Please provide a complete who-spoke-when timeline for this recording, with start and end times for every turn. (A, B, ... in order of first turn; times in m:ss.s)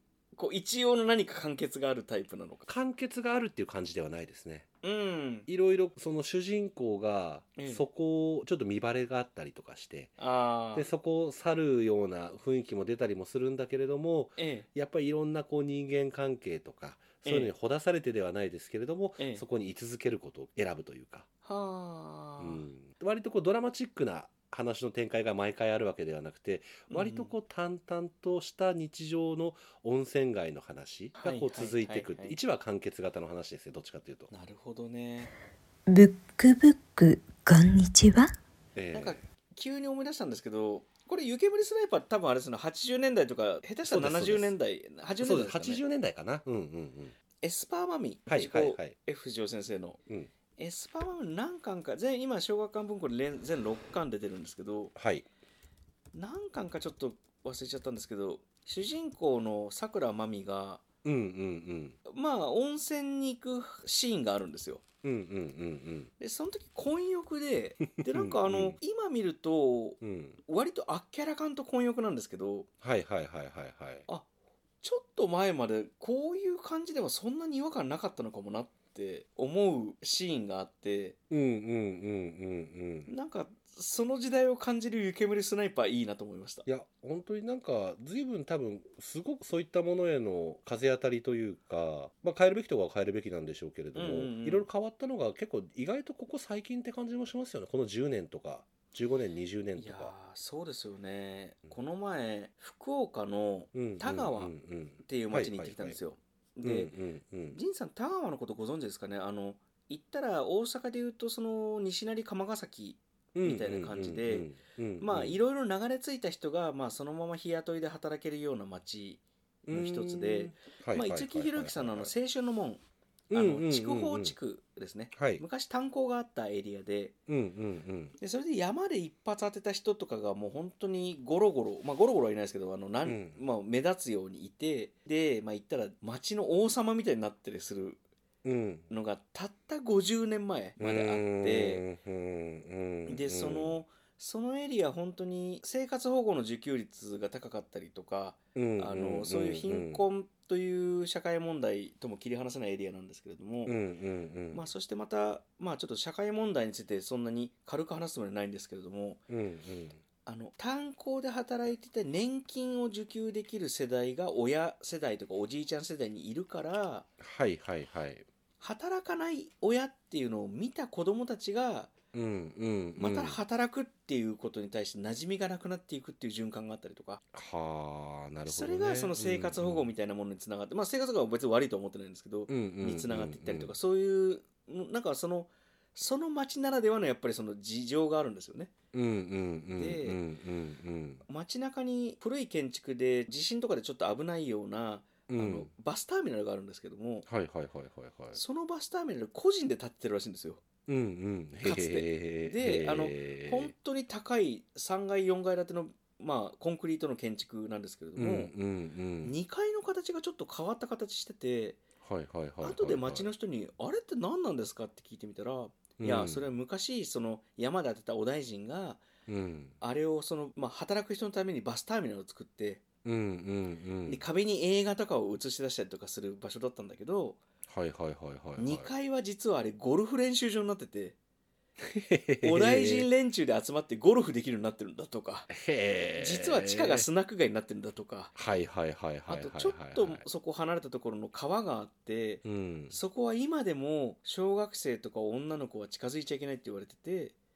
0:00.4-0:02.7 A
0:02.7-0:04.7 B
0:04.8-0:05.5 A
0:05.5-0:10.2 B
0:07.6-0:07.8 A
0:10.2-0:10.9 A
0:10.8-0:21.3 B
0:14.4-0:14.7 A
0:17.2-0:17.5 A
0:19.2-0:19.4 A
0:21.4-0:22.7 A
0:22.4-0:34.3 B
0:26.9-0:27.3 A
0:31.2-0:32.4 A
0:34.3-0:35.3 A
0:35.9-0:38.3 C
0:38.8-0:39.2 B
0:38.9-0:45.8 A
0:43.8-0:44.5 B
0:45.2-0:47.2 B
0:47.4-0:50.0 A
0:48.3-0:49.0 B
0:50.6-0:54.9 A
0:55.0-0:55.3 B
0:56.1-1:00.8 A
1:01.0-1:02.0 B
1:02.1-1:04.8 A
1:05.0-1:06.1 B
1:06.2-1:12.7 A
1:08.0-1:08.8 B
1:10.0-1:10.4 B
1:12.8-1:14.1 B
1:14.8-1:21.2 A
1:21.3-1:23.1 B
1:23.1-1:26.7 A
1:26.7-1:40.1 B
1:34.0-1:34.7 A
1:39.8-1:46.9 A
1:43.7-1:46.0 B
1:46.6-1:47.6 B
1:47.5-2:07.2 A
1:53.4-1:55.4 B
1:59.7-2:02.1 B
2:03.3-2:04.4 B
2:05.2-2:05.4 B
2:07.3-2:08.2 B
2:08.2-2:18.0 A
2:13.0-2:13.4 B
2:18.4-2:18.9 B
2:18.9-2:21.8 A
2:20.8-2:23.8 B
2:23.1-2:33.8 A
2:28.6-2:30.0 B
2:33.7-2:34.6 B
2:34.5-2:39.2 A
2:39.3-2:40.0 B
2:40.3-2:47.1 A
2:47.2-2:48.3 B
2:48.6-2:52.0 A
2:52.1-2:53.4 B
2:53.0-2:57.2 A
2:57.3-2:59.9 B
2:58.5-3:08.7 A
3:02.5-3:03.8 B
3:08.9-3:11.2 B
3:09.8-3:10.2 A
3:11.3-3:17.3 A
3:15.3-3:15.7 B
3:17.3-3:18.4 B
3:18.3-3:20.6 A
3:20.9-3:23.7 B
3:21.6-3:28.5 A
3:28.2-3:29.3 B
3:29.2-3:31.8 A
3:32.0-3:33.3 B
3:32.6-3:39.1 A
3:36.0-3:36.4 B
3:39.3-3:39.8 B
3:39.8-3:42.8 A
3:43.0-3:44.2 B
3:44.1-3:47.4 A
3:47.7-3:48.9 B
3:48.6-3:51.2 A
3:51.8-3:53.1 B
3:52.4-3:55.5 A
3:55.5-3:57.1 B
3:56.2-3:58.3 A
3:58.4-4:00.2 B
3:59.3-4:07.4 A
4:02.4-4:03.0 B